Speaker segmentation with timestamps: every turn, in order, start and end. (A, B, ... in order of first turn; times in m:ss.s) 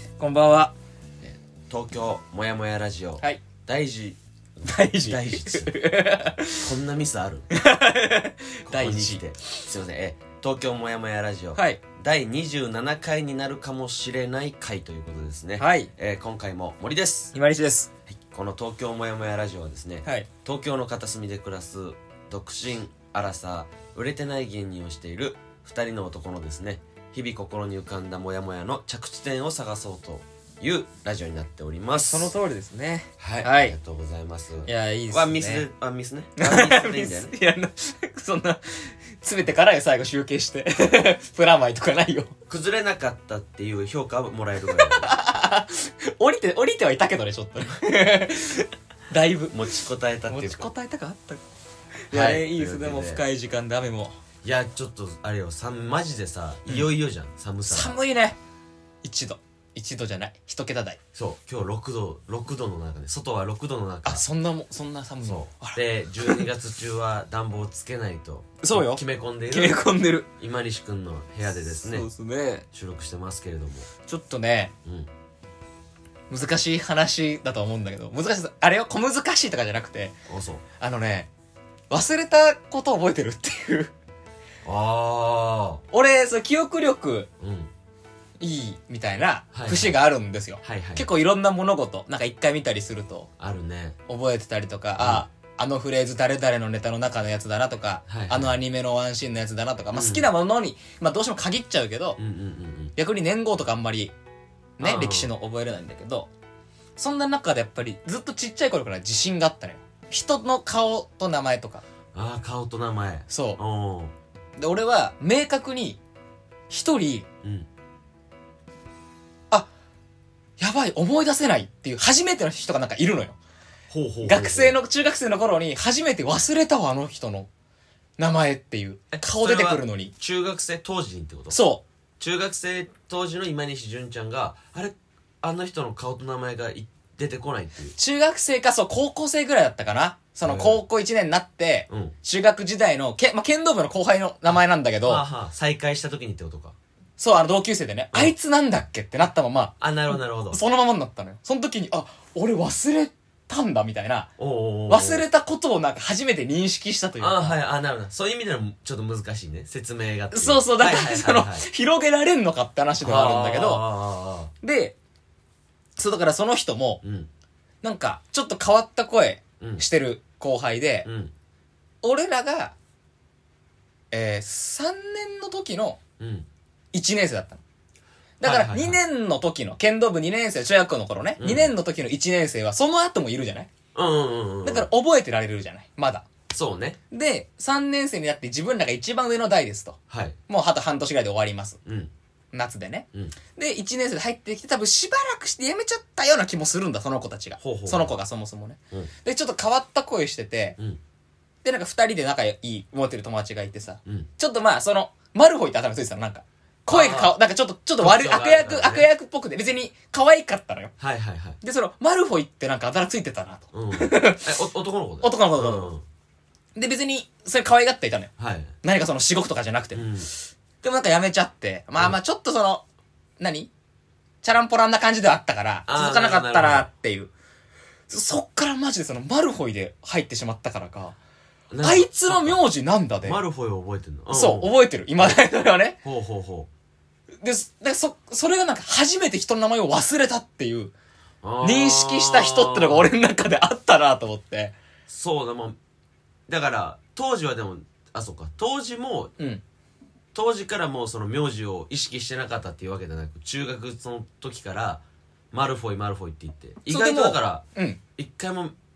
0:00.2-0:00.7 A
0:01.2-0:04.2 B
0:04.6-0:06.7 A
0:05.0-0:05.7 B
0:06.6-0:07.4 B
0:07.5-0:09.2 A
0:08.6-0:17.3 B
0:11.5-0:11.8 A
0:15.6-0:15.9 A
0:17.3-0:17.9 A
0:18.1-0:32.3 B
0:31.9-0:33.7 A
0:33.2-0:37.3 B
0:34.6-0:35.6 A
0:36.4-0:42.3 A
0:42.5-0:45.1 B
0:44.6-0:49.6 A
0:49.5-0:50.7 B
0:50.3-0:51.4 A
0:52.1-0:54.2 A
0:52.1-0:53.2 B
0:54.4-0:58.0 B
0:57.7-0:58.4 A
0:59.0-1:01.0 A
1:01.1-1:04.2 B
1:04.0-1:06.4 A
1:05.2-1:09.8 B
1:08.6-1:10.3 A
1:10.4-1:12.1 B
1:11.7-1:12.6 A
1:12.7-1:13.9 B
1:14.1-1:14.7 A
1:16.3-1:20.1 A
1:20.3-1:20.6 B
1:20.8-1:21.3 A
1:21.9-1:23.9 A
1:24.6-1:25.8 B
1:25.9-1:27.3 A
1:27.4-1:27.7 B
1:28.4-1:33.3 A
1:29.5-1:29.9 B
1:30.6-1:31.0 B
1:33.4-1:34.0 B
1:34.1-1:42.2 A
1:35.0-1:35.2 B
1:38.1-1:38.6 B
1:39.9-1:40.3 B
1:42.2-1:42.9 B
1:43.0-1:44.1 A
1:44.8-1:46.3 A
1:44.8-1:45.3 B
1:47.0-1:51.8 A
1:52.1-1:54.1 B
1:53.3-1:53.6 A
1:54.6-1:56.0 A
1:56.7-1:57.3 A
2:00.6-2:03.4 A
2:03.9-2:04.8 B
2:04.2-2:07.5 A
2:08.2-2:10.1 A
2:09.1-2:11.6 B
2:11.5-2:11.8 A
2:12.2-2:17.9 B
2:18.0-2:25.2 A
2:20.4-2:20.8 B
2:21.9-2:22.1 B
2:25.0-2:26.8 B
2:27.2-2:29.7 A
2:29.8-2:30.6 B
2:30.5-2:34.3 A
2:34.4-2:35.2 B
2:34.9-2:37.6 A
2:37.2-2:41.6 B
2:40.3-2:43.8 A
2:43.0-2:44.5 B
2:44.6-2:45.0 A
2:46.0-2:47.0 A
2:47.0-2:47.3 B
2:47.8-2:51.1 A
2:51.0-2:51.3 B
2:52.0-2:52.7 A
2:54.1-2:56.0 A
2:56.2-2:56.5 B
2:56.9-2:57.6 A
2:58.4-3:03.7 A
2:58.4-2:59.0 B
3:01.4-3:01.7 B
3:03.9-3:04.9 B
3:04.6-3:06.2 A
3:06.5-3:07.0 B
3:07.1-3:11.8 A
3:10.1-3:10.4 B
3:11.8-3:12.1 B
3:12.5-3:20.8 A
3:17.6-3:18.1 B
3:21.6-3:30.9 A
3:26.9-3:27.4 B
3:28.0-3:29.1 B
3:31.0-3:31.6 B
3:31.6-3:34.6 A
3:33.7-3:36.0 B
3:35.2-3:35.9 A
3:36.8-3:38.3 A
3:38.4-3:38.7 B
3:38.8-3:42.8 A
3:39.9-3:40.3 B
3:43.4-3:43.7 A
3:44.4-3:47.3 A
3:45.9-3:46.9 B
3:48.1-3:51.2 A
3:51.7-3:52.6 B
3:51.8-3:53.4 A
3:53.2-3:55.4 B
3:54.3-3:56.0 A
3:56.0-3:56.7 B
3:57.4-4:00.9 A
4:01.4-4:03.1 B
4:01.6-4:04.7 A
4:05.1-4:05.8 B
4:06.5-4:09.3 B
4:10.3-4:17.6 B
4:16.8-4:18.0 A
4:18.2-4:18.7 B